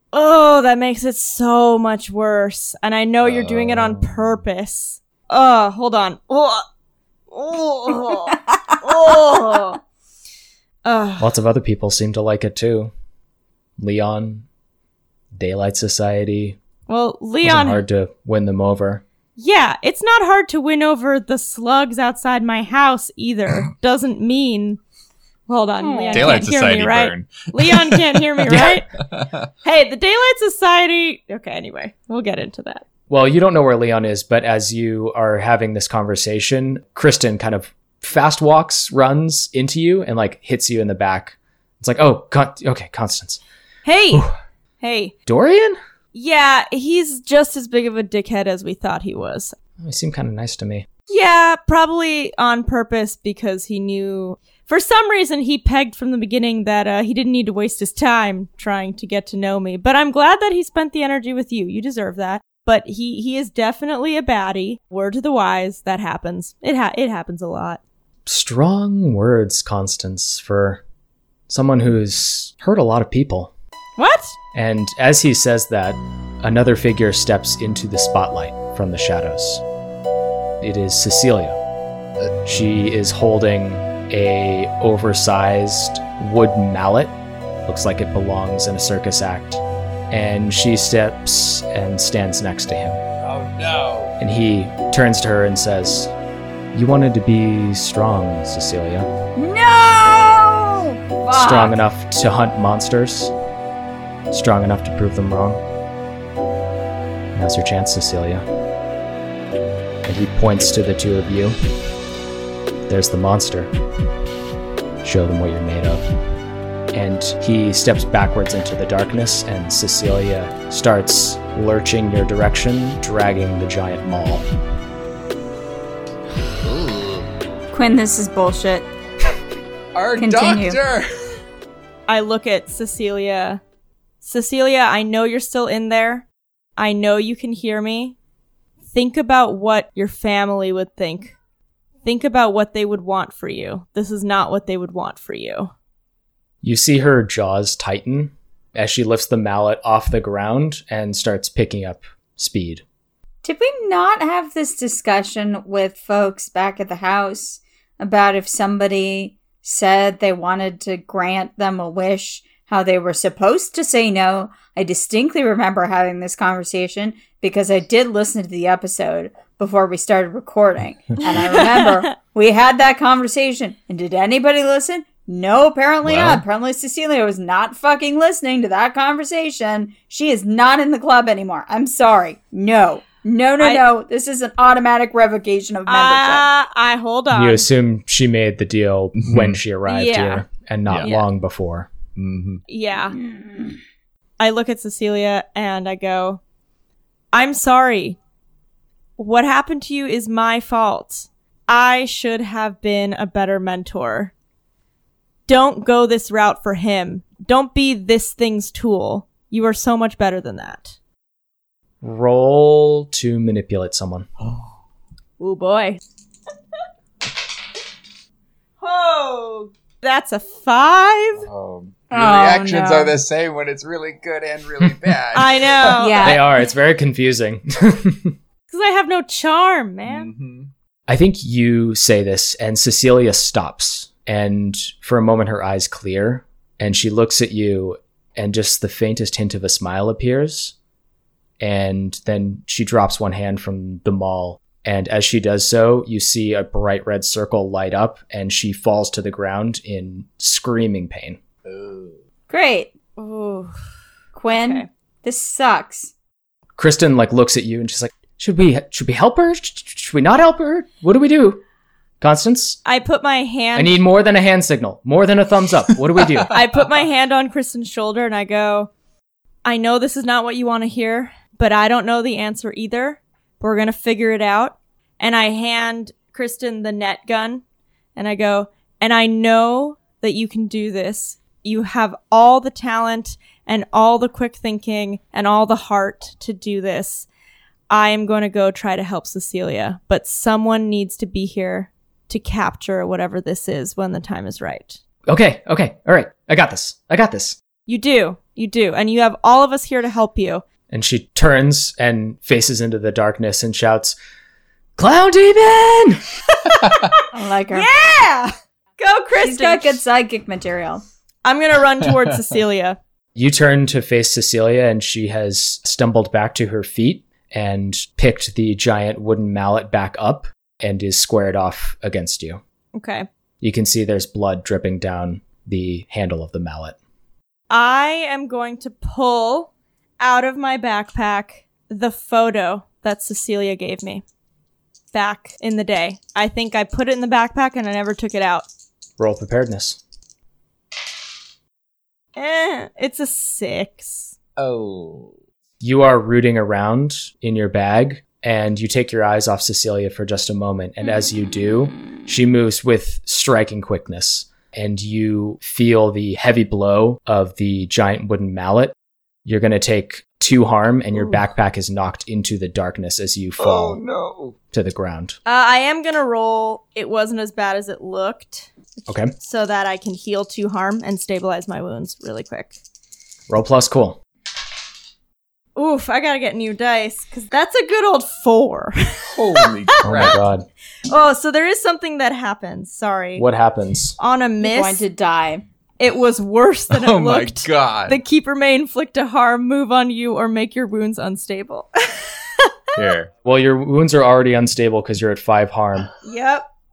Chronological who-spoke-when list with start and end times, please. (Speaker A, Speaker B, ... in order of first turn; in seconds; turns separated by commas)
Speaker A: 0.1-6.7, Speaker B: 3.2-4.4, Speaker A: 7.3-9.8, Speaker C: 8.3-8.8, Speaker A: 10.8-11.3, Speaker D: 11.2-12.9, Speaker D: 13.8-14.5, Speaker D: 15.3-16.6, Speaker A: 16.9-17.8, Speaker D: 17.4-19.0, Speaker A: 19.4-24.8, Speaker A: 25.5-28.9, Speaker C: 25.8-26.4, Speaker B: 26.1-29.5, Speaker A: 29.6-32.8, Speaker D: 33.1-43.4, Speaker A: 43.9-44.3, Speaker A: 44.8-45.1, Speaker D: 45.3-45.8, Speaker A: 46.1-49.5, Speaker D: 49.8-50.9, Speaker A: 51.1-67.8, Speaker D: 68.3-70.8, Speaker D: 71.5-73.5, Speaker A: 74.0-74.4, Speaker D: 74.5-79.6, Speaker D: 80.6-81.6, Speaker D: 82.2-93.0, Speaker B: 93.2-94.2, Speaker D: 94.2-96.1, Speaker D: 96.7-99.1, Speaker C: 99.4-101.8, Speaker D: 101.3-103.3, Speaker D: 104.3-105.6, Speaker D: 107.3-108.4, Speaker D: 110.0-111.5, Speaker D: 112.9-113.7, Speaker D: 115.0-116.1, Speaker D: 116.9-124.5, Speaker B: 126.6-127.3, Speaker C: 127.7-128.9, Speaker B: 129.9-131.4, Speaker C: 130.2-130.8, Speaker A: 132.1-133.6, Speaker A: 134.2-136.3, Speaker A: 136.8-138.2, Speaker A: 138.9-141.4, Speaker A: 142.0-145.7, Speaker D: 146.6-152.8, Speaker C: 153.4-186.5, Speaker A: 171.4-172.1, Speaker B: 176.0-176.4, Speaker A: 183.6-183.9, Speaker A: 185.9-187.7, Speaker D: 187.3-191.9, Speaker B: 189.2-189.6, Speaker A: 189.9-190.5, Speaker B: 192.2-192.6, Speaker A: 192.7-193.2, Speaker C: 193.1-193.8, Speaker A: 194.4-196.4, Speaker A: 197.3-198.2, Speaker A: 199.2-204.3, Speaker A: 205.5-211.0, Speaker D: 212.0-214.3, Speaker B: 214.4-214.7, Speaker A: 215.4-216.0, Speaker A: 218.8-221.4, Speaker B: 221.4-226.0, Speaker C: 222.1-223.2, Speaker A: 225.3-226.4, Speaker C: 225.9-226.4, Speaker D: 226.2-228.3, Speaker A: 228.7-230.3, Speaker B: 230.1-230.7, Speaker D: 231.1-240.8, Speaker D: 241.6-251.4, Speaker B: 251.7-252.2, Speaker C: 252.5-252.9, Speaker A: 253.2-253.8, Speaker C: 254.3-256.1, Speaker A: 254.5-254.9, Speaker D: 256.8-261.6, Speaker D: 262.2-262.8, Speaker A: 262.9-264.0, Speaker D: 263.8-266.5, Speaker A: 266.5-268.9, Speaker A: 269.6-277.6, Speaker A: 278.2-287.3, Speaker A: 287.9-295.0, Speaker D: 295.3-297.6, Speaker A: 297.9-300.6, Speaker D: 300.9-304.2, Speaker D: 305.0-306.2, Speaker B: 306.8-307.1, Speaker C: 307.3-307.9, Speaker A: 307.7-310.0, Speaker C: 309.4-311.0, Speaker A: 311.4-313.0, Speaker D: 313.4-322.6, Speaker A: 322.9-323.3, Speaker D: 323.6-327.0, Speaker A: 327.7-334.2, Speaker A: 335.1-338.7, Speaker D: 339.2-340.0, Speaker A: 342.4-344.3, Speaker B: 344.6-345.3, Speaker D: 345.8-358.9, Speaker D: 359.5-364.0, Speaker B: 363.6-364.6, Speaker D: 364.7-365.4, Speaker A: 365.5-372.7, Speaker D: 369.1-369.3, Speaker D: 373.5-374.2, Speaker A: 375.8-379.7, Speaker B: 379.4-380.4, Speaker D: 380.0-380.7, Speaker A: 381.1-383.5, Speaker D: 383.4-384.2, Speaker A: 384.2-385.1, Speaker C: 384.6-385.6, Speaker A: 386.0-392.7, Speaker B: 386.9-388.2, Speaker B: 392.9-393.3, Speaker D: 393.4-396.1, Speaker A: 396.2-396.7